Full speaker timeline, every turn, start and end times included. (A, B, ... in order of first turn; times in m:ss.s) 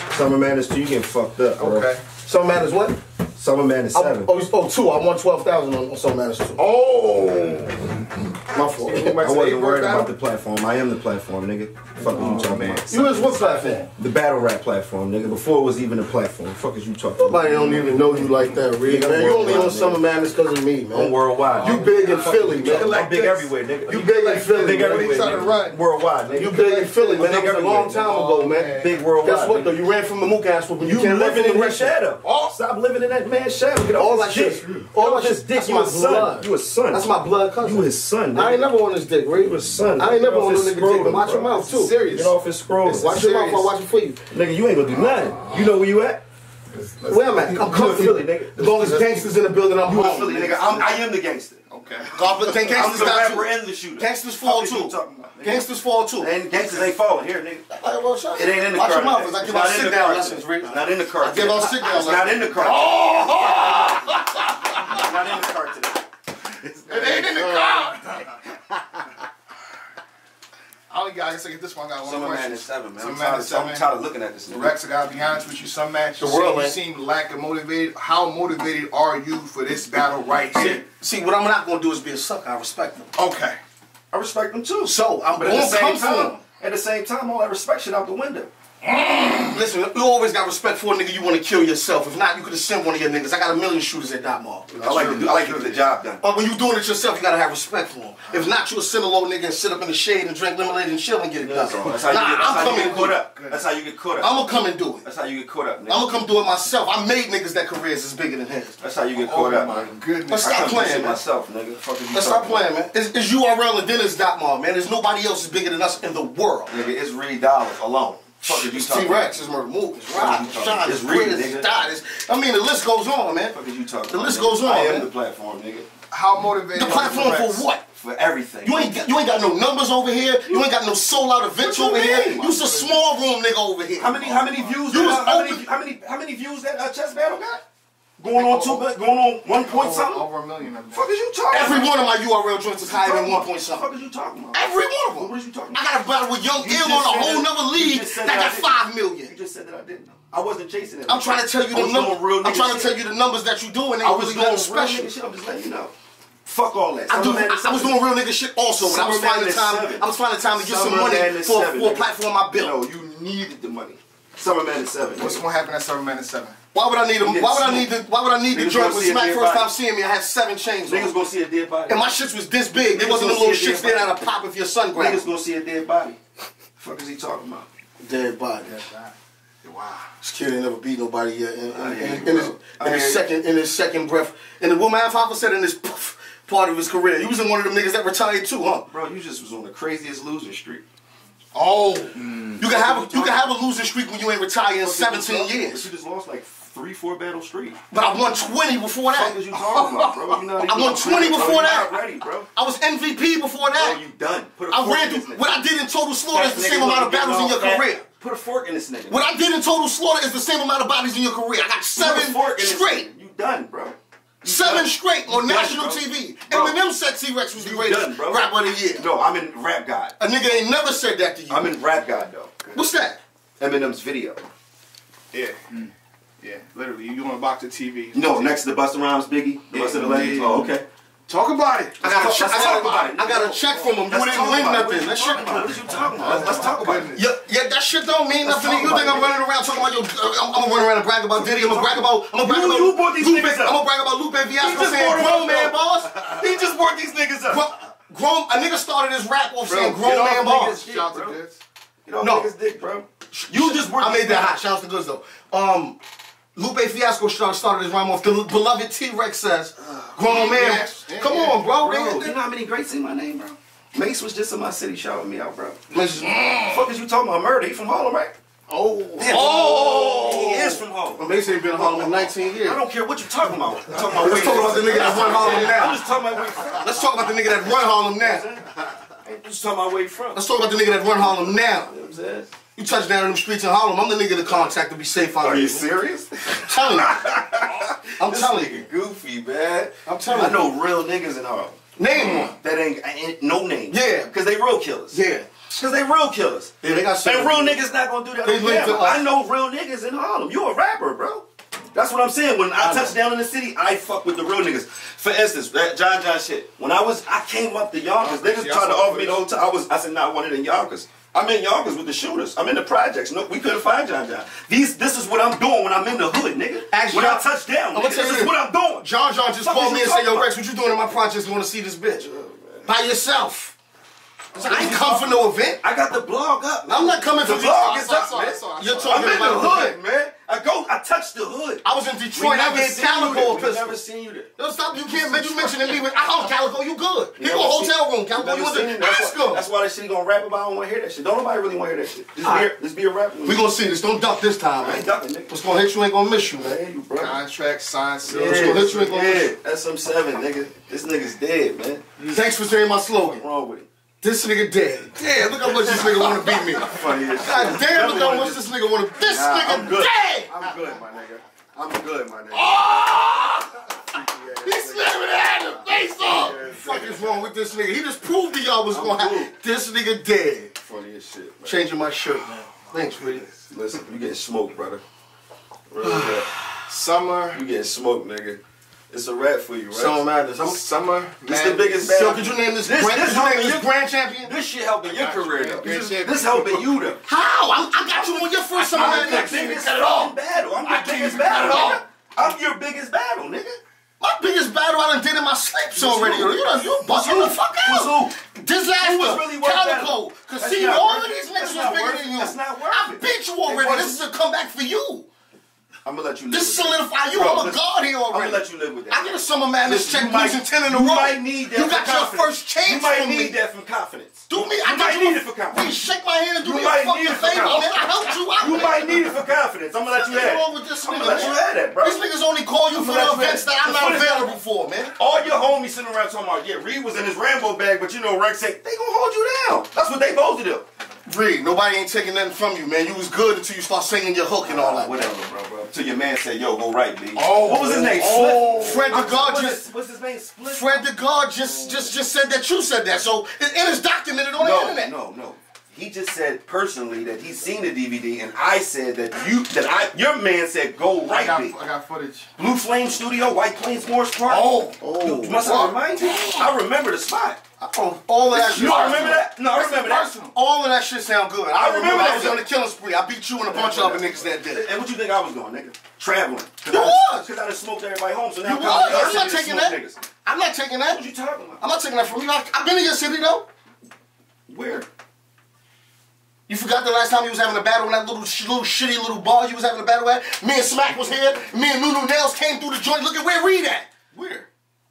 0:00.1-0:01.9 A
0:01.6-0:02.0 B
0:02.2-0:03.0 C
0:03.4-0:04.3 A
0:03.9-0:06.6 C
0:06.6-0:08.0 B
0:08.5-0:09.1 C
0:08.8-0:12.9 A
0:08.9-0:10.1 B
0:12.0-0:13.3 B
0:12.9-0:13.9 C
0:14.0-0:17.9 A
0:17.2-0:23.0 C
0:18.8-0:20.0 A
0:20.9-0:28.1 A
0:21.5-0:25.8 B
0:23.9-0:25.3 C
0:26.4-0:32.0 C
0:26.5-0:27.4 B
0:28.0-0:28.9 B
0:28.7-0:29.7 A
0:30.8-0:37.1 A
0:32.2-0:32.6 B
0:33.9-0:42.0 C
0:34.6-0:34.8 B
0:37.6-0:38.7 A
0:39.4-0:41.6 A
0:41.6-0:42.3 B
0:42.1-0:43.1 A
0:42.9-0:44.2 C
0:43.0-0:43.7 B
0:44.3-0:46.2 A
0:46.9-0:47.9 B
0:47.1-0:50.7 C
0:47.6-0:49.1 A
0:49.9-0:50.9 B
0:49.9-0:51.6 A
0:51.7-0:52.6 B
0:52.2-0:56.3 C
0:52.7-0:55.7 A
0:56.2-0:57.7 A
0:57.7-1:02.8 C
0:58.3-1:04.0 A
1:02.6-1:05.0 B
1:04.9-1:06.1 A
1:06.6-1:07.7 A
1:06.9-1:08.4 B
1:10.9-1:13.9 B
1:12.0-1:14.8 A
1:14.5-1:20.8 B
1:16.2-1:16.8 C
1:20.5-1:23.1 C
1:23.2-1:23.6 B
1:24.1-1:28.5 A
1:24.8-1:26.4 C
1:29.0-1:29.5 B
1:29.4-1:43.2 C
1:34.8-1:36.2 A
1:34.8-1:35.2 B
1:41.4-1:44.4 A
1:42.2-1:43.6 B
1:44.2-1:45.1 C
1:45.0-1:46.2 A
1:45.9-1:48.8 C
1:48.8-1:52.7 A
1:49.2-1:50.7 B
1:50.3-1:51.2 C
1:52.1-1:56.8 C
1:56.7-1:59.4 A
1:58.4-2:03.6 C
2:00.1-2:01.7 A
2:03.5-2:05.9 A
2:04.1-2:05.1 C
2:06.1-2:07.6 B
2:06.7-2:07.8 C
2:08.0-2:09.1 A
2:08.6-2:15.7 C
2:10.4-2:10.8 A
2:11.5-2:12.5 A
2:12.2-2:13.0 B
2:14.0-2:17.6 A
2:18.2-2:20.2 A
2:18.3-2:18.9 B
2:19.6-2:21.1 B
2:20.9-2:22.0 A
2:21.5-2:23.9 C
2:22.8-2:25.8 A
2:24.5-2:29.3 C
2:26.6-2:33.0 A
2:31.1-2:35.1 C
2:34.0-2:35.9 A
2:36.4-2:38.0 A
2:37.1-2:42.8 C
2:38.8-2:40.0 A
2:40.6-2:45.4 A
2:45.1-2:46.6 B
2:46.7-2:51.2 C
2:47.2-2:48.0 A
2:48.5-2:49.7 A
2:50.8-2:52.2 A
2:51.9-2:55.3 C
2:52.9-2:54.2 A
2:55.0-2:56.2 A
2:56.8-2:57.7 A
2:58.0-2:58.8 C
2:58.6-2:59.1 B
2:59.6-3:00.1 B
3:00.2-3:08.9 C
3:01.7-3:03.3 A
3:08.9-3:10.8 A
3:11.5-3:12.6 B
3:12.6-3:15.9 C
3:12.6-3:13.5 A
3:14.7-3:17.8 A
3:17.9-3:19.4 C
3:19.1-3:22.5 A
3:20.6-3:22.0 C
3:22.5-3:24.0 C
3:23.7-3:25.7 A
3:24.7-3:28.0 C
3:26.3-3:29.3 A
3:29.1-3:33.1 C
3:32.0-3:36.8 A
3:34.4-3:39.0 C
3:37.5-3:40.2 A
3:40.2-3:41.7 C
3:41.5-3:42.5 A
3:42.7-3:43.2 C
3:43.6-3:44.5 A
3:45.3-3:48.6 B
3:48.1-3:50.8 A
3:49.7-3:50.7 B
3:51.3-3:53.1 B
3:52.0-3:57.1 A
3:52.0-3:55.8 C
3:56.2-3:57.2 B
3:57.1-4:06.1 C
3:58.4-3:59.4 A
4:01.3-4:03.8 A
4:04.6-4:07.7 A
4:07.5-4:10.9 C
4:09.7-4:11.6 B
4:10.7-4:11.4 A
4:12.0-4:14.6 A
4:12.2-4:12.5 C
4:13.3-4:16.0 C
4:16.6-4:22.4 C
4:19.8-4:21.6 B
4:21.6-4:25.8 A
4:25.9-4:26.7 C
4:26.2-4:26.7 B
4:26.6-4:28.3 A
4:28.7-4:30.4 B
4:29.2-4:37.7 A
4:29.2-4:32.8 C
4:34.1-4:36.0 C
4:34.2-4:35.4 B
4:36.8-4:38.5 C
4:38.2-4:42.5 A
4:40.3-4:41.9 C
4:42.8-4:45.9 C
4:45.4-5:19.1 A
4:46.5-4:47.3 C
4:48.2-4:48.9 C
4:50.1-4:50.8 C
4:52.0-4:52.5 C
4:53.9-4:54.3 C
4:55.1-4:55.5 C
4:56.8-4:57.8 C
4:58.4-4:59.3 C
5:02.8-5:03.2 C
5:08.2-5:09.4 B
5:16.9-5:22.3 C
5:19.6-5:20.5 A
5:22.2-5:22.9 A
5:22.9-5:23.8 C
5:24.6-5:25.8 C
5:24.6-5:36.1 A
5:26.8-5:27.9 C
5:27.4-5:29.6 B
5:28.8-5:30.0 C
5:31.8-5:34.0 C
5:34.6-5:39.6 C
5:37.4-5:43.6 A
5:42.4-5:42.7 C
5:43.4-5:46.8 C
5:44.8-5:45.8 A
5:46.6-5:47.4 A
5:47.2-5:49.2 B
5:48.2-5:52.0 A
5:48.3-5:49.5 C
5:52.2-5:53.4 C
5:53.1-5:53.9 A
5:54.2-6:00.5 C
5:55.6-6:03.0 A
6:02.7-6:03.7 B
6:03.9-6:05.2 A
6:04.6-6:06.6 B
6:05.3-6:10.7 C
6:06.2-6:07.5 A
6:08.9-6:09.6 A
6:10.8-6:11.9 A
6:11.6-6:13.5 C
6:13.7-6:15.0 A
6:15.9-6:16.6 A
6:16.0-6:17.6 B
6:17.5-6:20.2 A
6:19.9-6:20.8 C
6:20.6-6:22.0 B
6:21.4-6:27.2 A
6:22.1-6:24.5 C
6:25.1-6:26.9 B
6:27.2-6:29.9 C
6:28.9-6:33.8 A
6:28.9-6:32.0 B
6:34.2-6:45.3 C
6:36.0-6:38.4 A
6:39.0-6:44.3 A
6:46.0-6:56.0 A
6:46.5-6:53.5 C
6:54.5-6:59.4 C
6:56.6-7:02.2 A
7:00.1-7:05.1 C
7:02.9-7:04.6 A
7:05.2-7:10.9 A
7:11.3-7:15.3 C
7:14.6-7:21.0 A
7:17.3-7:19.2 B
7:18.8-7:19.8 C
7:20.7-7:25.1 C
7:24.6-7:31.8 A
7:31.3-7:32.5 B
7:32.6-7:37.6 A
7:34.5-7:36.7 B
7:37.8-7:39.4 C
7:38.5-7:40.3 A
7:38.5-7:40.5 B
7:40.5-7:44.9 C
7:41.7-7:42.6 A
7:43.7-7:50.2 A
7:46.9-7:47.5 C
7:48.6-7:51.2 C
7:51.1-7:51.8 A
7:51.8-7:53.7 C
7:54.7-7:55.1 A
7:56.7-8:04.2 C
8:04.3-8:04.7 A